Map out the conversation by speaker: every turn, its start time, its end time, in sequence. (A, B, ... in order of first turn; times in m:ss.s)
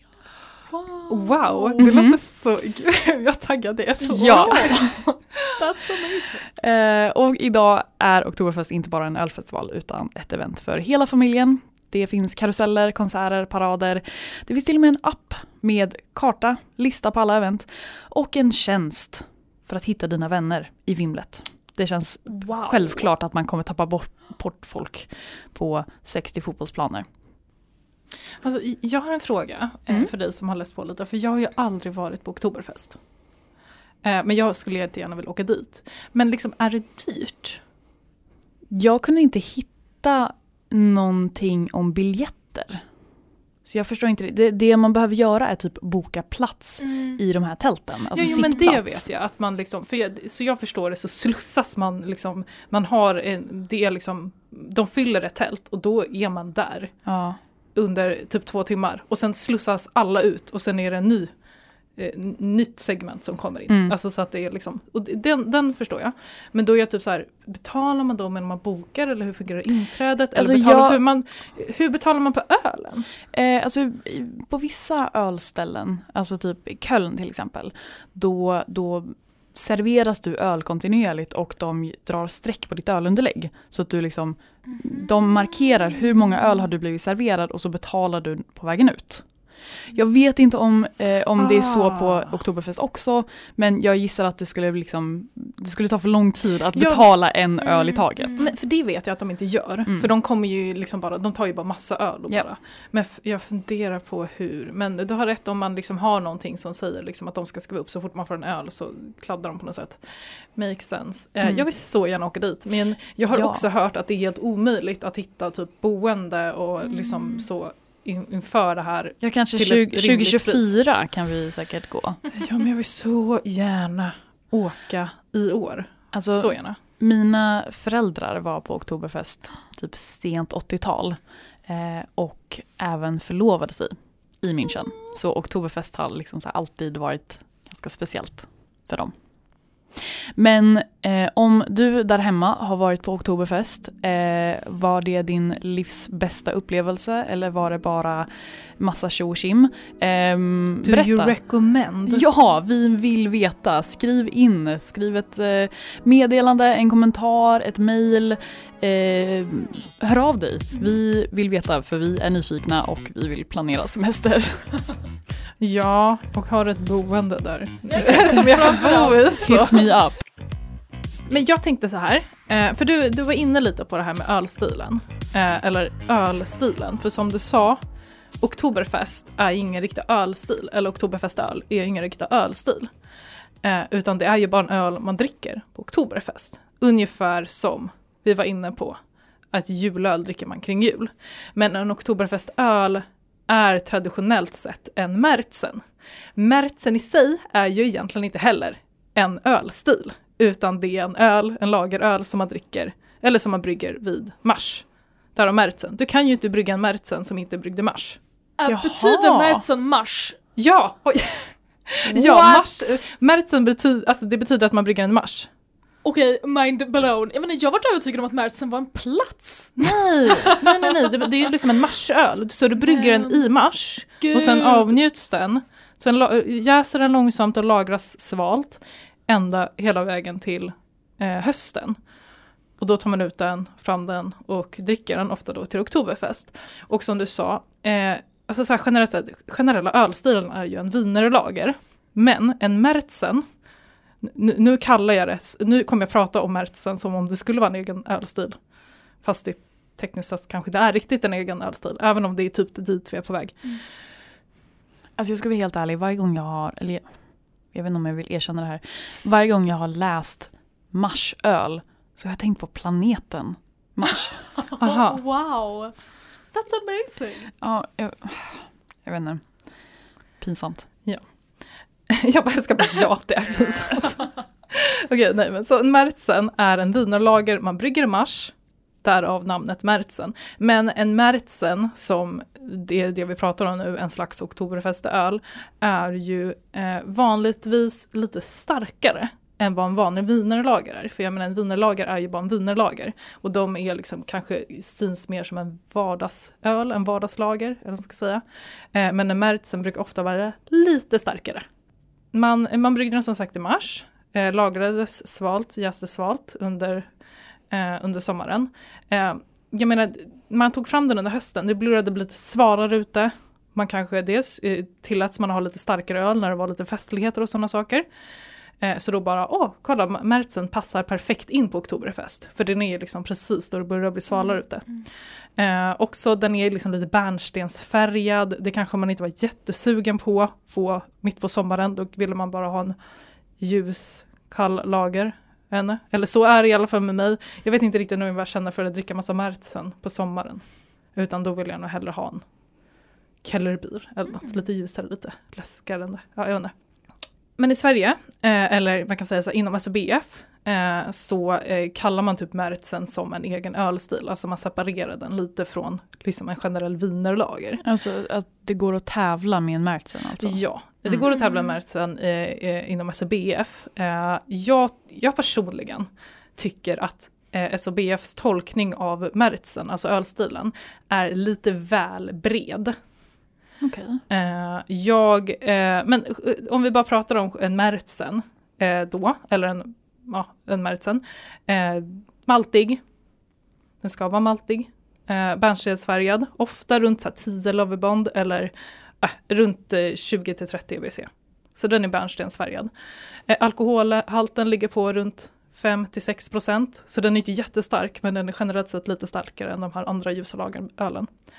0:00.7-0:01.8 A
0:01.1-0:05.5 B
0:01.8-0:02.2 C
0:04.1-0:05.0 C
0:04.1-0:04.9 A
0:05.5-0:06.4 A
0:06.6-0:27.1 C
0:28.4-0:33.0 B
0:34.0-0:37.6 B
0:38.7-0:42.8 C
0:43.6-0:49.0 C
0:46.8-0:47.2 A
0:48.1-0:56.9 B
0:48.3-0:48.5 A
0:57.1-0:57.4 C
0:57.8-1:01.3 B
1:02.0-1:13.1 B
1:03.7-1:04.0 C
1:10.3-1:11.0 C
1:13.3-1:29.3 C
1:29.9-1:38.5 C
1:31.4-1:32.3 B
1:36.7-1:37.1 B
1:37.6-1:38.5 A
1:38.4-2:00.7 B
1:53.3-1:53.7 C
1:59.2-2:02.3 C
2:02.4-2:06.8 B
2:06.1-2:19.2 C
2:20.0-2:31.4 C
2:30.8-2:32.3 B
2:32.1-2:44.8 C
2:45.6-2:49.9 B
2:47.9-2:49.2 A
2:48.3-2:48.7 C
2:49.4-2:50.2 C
2:51.3-2:57.8 B
2:58.4-3:02.9 B
3:03.6-3:09.0 B
3:09.5-3:15.8 B
3:16.4-3:28.2 B
3:28.6-3:30.4 A
3:28.7-3:29.6 C
3:30.6-3:35.5 B
3:32.1-3:33.0 C
3:36.0-3:40.9 A
3:39.8-3:52.0 B
3:43.0-3:43.3 A
3:44.2-3:44.9 A
3:52.8-4:03.4 B
4:04.2-4:08.6 B
4:09.2-4:13.7 B
4:15.2-4:17.1 C
4:17.7-4:24.5 C
4:24.7-4:26.0 A
4:24.8-4:25.2 B
4:26.5-4:27.5 A
4:27.6-4:29.5 C
4:30.4-4:30.9 C
4:32.1-5:01.7 B
5:02.3-5:07.1 B
5:07.7-5:18.1 B
5:18.8-5:25.0 B
5:25.6-5:33.0 B
5:33.6-5:42.4 B
5:43.4-5:46.7 B
5:47.6-5:57.8 B
5:57.8-6:01.3 C
6:00.4-6:13.0 B
6:13.8-6:14.2 C
6:14.3-6:23.0 B
6:24.0-6:32.9 B
6:33.5-6:41.3 B